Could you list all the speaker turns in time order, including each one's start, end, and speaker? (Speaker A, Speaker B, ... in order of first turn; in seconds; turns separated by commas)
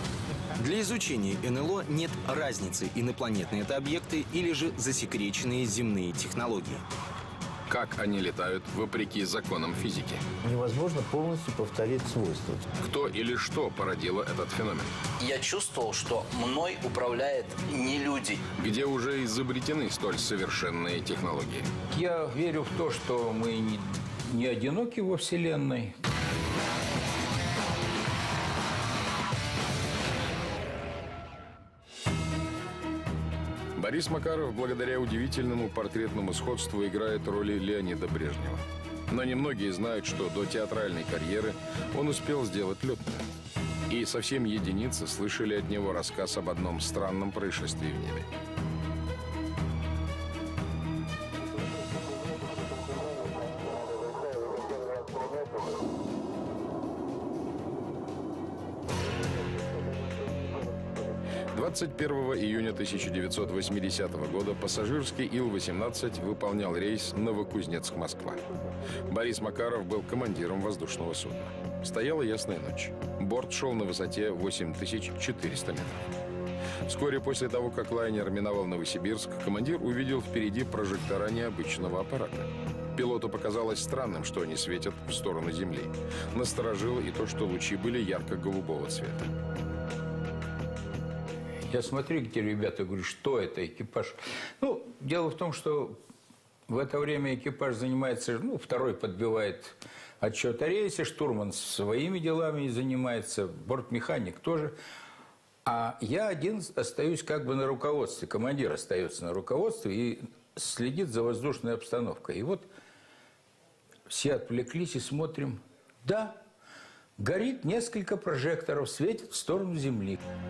Speaker A: 0.6-6.8, Speaker B: 7.7-10.2, Speaker C: 10.4-12.7, Speaker B: 12.8-14.9, Speaker D: 15.2-18.4, Speaker B: 18.6-21.7, Speaker E: 21.9-25.9, Speaker B: 33.8-43.3, Speaker B: 43.9-48.3, Speaker B: 61.5-68.4, Speaker B: 69.1-76.0, Speaker B: 76.9-89.3, Speaker E: 91.7-96.0, Speaker E: 96.7-104.7, Speaker E: 105.6-112.7, Speaker E: 114.1-116.4, Speaker E: 117.2-120.2